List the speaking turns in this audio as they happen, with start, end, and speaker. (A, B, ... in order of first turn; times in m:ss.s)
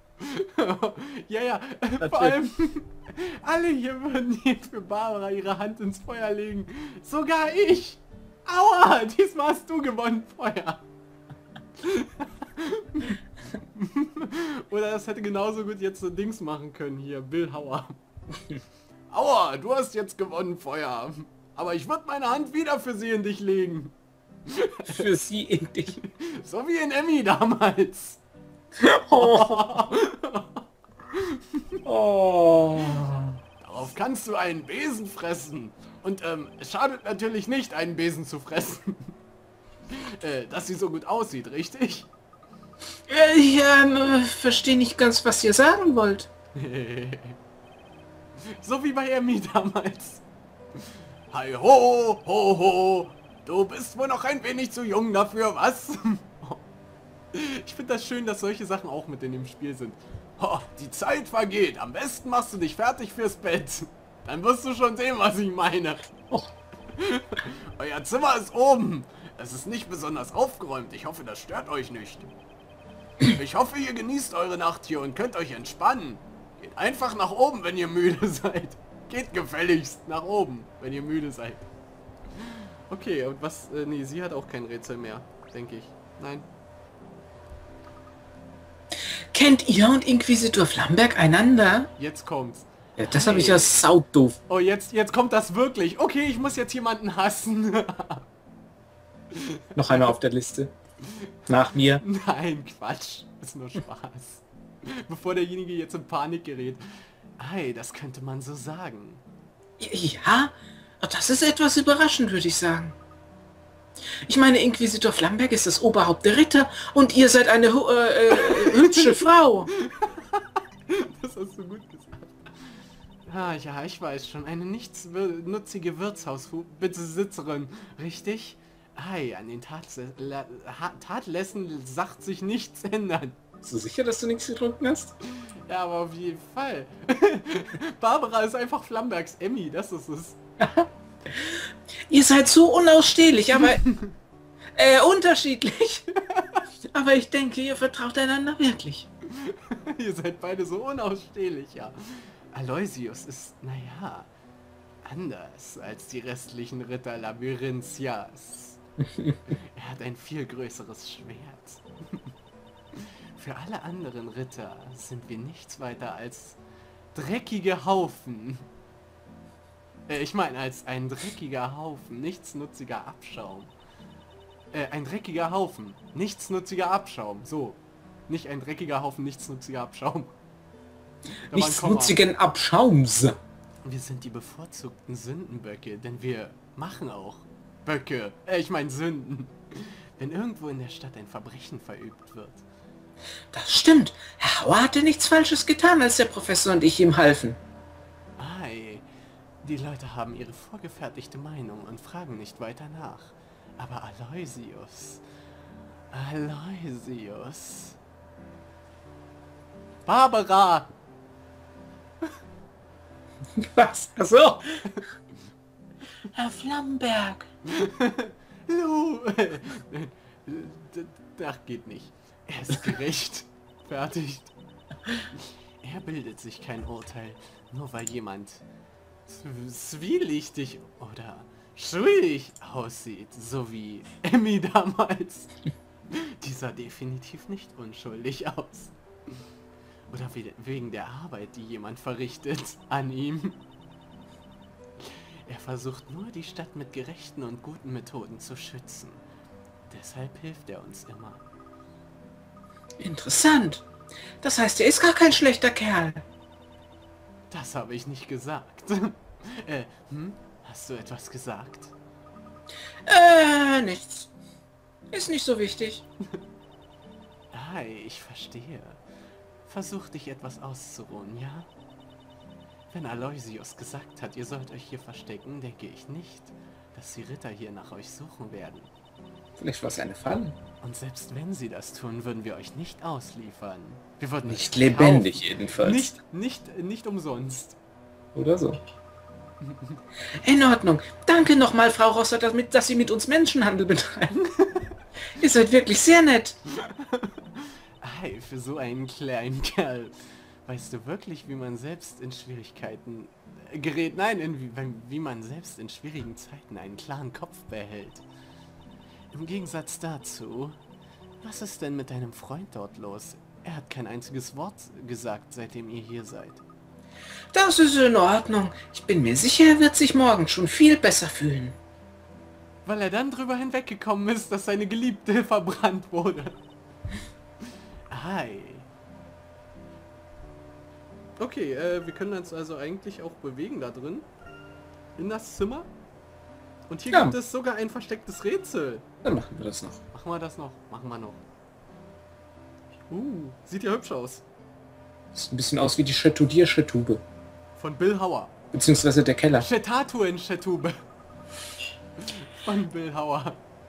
0:00.2-0:10.8 A
0:02.0-0:02.4 B
0:11.8-0:13.2 A
0:13.8-0:18.0 A
0:19.1-0:23.9 A
0:24.5-0:25.0 A
0:24.9-0:25.9 B
0:25.9-0:28.2 A
0:28.8-0:29.7 B
0:29.1-0:30.6 A
0:31.1-0:31.8 A
0:31.8-0:33.4 B
0:33.6-0:39.1 A
0:39.9-0:42.1 A
0:43.1-0:46.3 B
0:46.6-0:47.4 A
0:48.5-0:50.2 A
0:51.3-0:56.6 A
0:57.3-1:06.0 A
1:06.9-1:12.3 A
1:13.2-1:21.6 A
1:22.4-1:26.4 A
1:29.3-1:31.9 B
1:32.0-1:33.8 A
1:33.0-1:34.4 B
1:34.5-1:38.2 A
1:39.3-1:40.1 A
1:39.8-1:40.7 B
1:41.0-1:41.3 A
1:41.5-1:42.0 B
1:41.9-1:46.8 A
1:47.4-1:49.2 A
1:49.8-1:53.0 B
1:54.2-1:59.7 B
1:58.3-2:13.4 A
2:13.6-2:15.1 B
2:15.4-2:20.4 A
2:20.6-2:23.8 B
2:23.6-2:24.1 A
2:24.8-2:26.0 B
2:26.3-2:26.6 A
2:26.8-2:29.1 B
2:29.4-2:34.3 A
2:35.0-2:38.8 A
2:39.5-2:42.3 A
2:42.9-2:46.6 A
2:47.1-2:48.6 A
2:50.1-2:53.7 A
2:54.7-3:00.3 A
3:01.4-3:02.2 A
3:01.5-3:03.4 B
3:03.8-3:12.6 A
3:13.5-3:17.6 B
3:18.4-3:19.0 A
3:19.6-3:25.2 A
3:26.1-3:28.0 A
3:30.0-3:30.9 A
3:33.6-3:34.6 B
3:36.3-3:37.4 B
3:37.8-3:44.5 A
3:45.8-3:48.6 A
3:49.3-3:55.5 A
3:56.1-3:58.9 A
4:00.1-4:03.6 A
4:05.1-4:09.2 A
4:09.9-4:11.4 A
4:13.0-4:13.8 B
4:14.4-4:16.2 B
4:17.5-4:21.9 A
4:23.0-4:24.3 B
4:25.1-4:26.0 B
4:27.5-4:29.0 A
4:29.6-4:31.7 A
4:32.9-4:38.9 A
4:39.6-4:40.5 B
4:40.8-4:47.8 A
4:44.5-4:46.1 B
4:48.4-4:48.8 B
4:49.7-4:50.0 A
4:50.4-4:54.4 B
4:54.6-4:54.9 A
4:55.4-4:56.6 B
4:56.8-5:08.2 A
5:09.3-5:10.8 A
5:11.4-5:16.6 A
5:17.5-5:21.8 B
5:22.9-5:26.6 A
5:28.1-5:28.9 A
5:31.4-5:34.3 A
5:35.2-5:35.9 A
5:36.9-5:39.0 A
5:39.2-5:40.0 B
5:40.1-5:41.4 A
5:43.1-5:44.4 A
5:45.3-5:47.2 B
5:47.8-5:48.5 A
5:48.7-5:49.7 B
5:49.6-5:50.9 A
5:52.2-5:53.6 A